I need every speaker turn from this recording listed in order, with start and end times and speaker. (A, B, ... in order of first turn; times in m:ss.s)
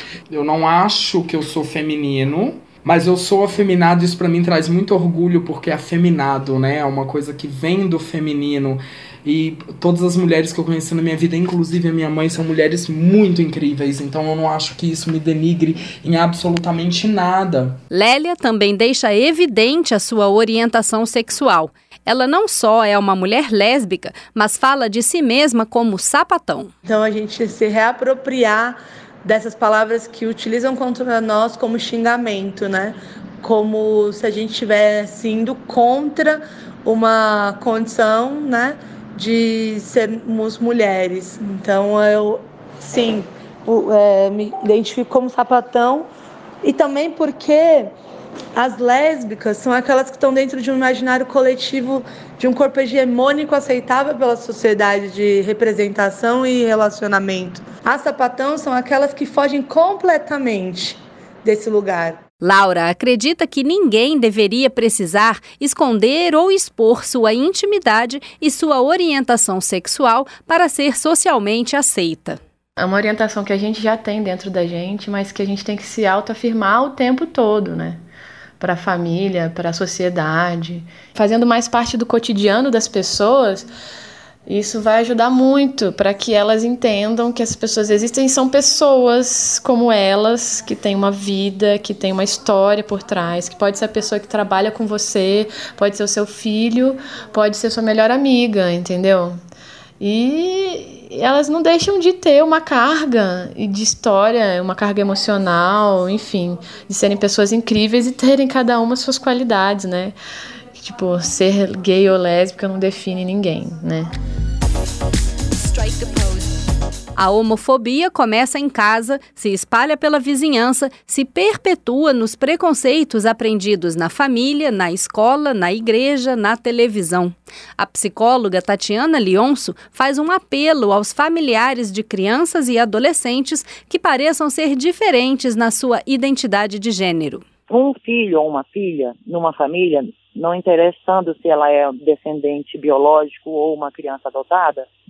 0:00.3-0:17.8 A
0:17.9-0:26.7 B
0:26.8-0:46.1 C
0:46.6-0:47.9 C
0:48.6-1:02.2 C
1:02.4-1:12.4 B
1:12.8-1:18.0 D
1:18.6-1:23.7 D
1:24.5-1:39.4 D
1:40.0-1:50.1 D
1:50.8-1:54.1 D
1:57.2-2:17.4 B
2:17.7-2:24.9 E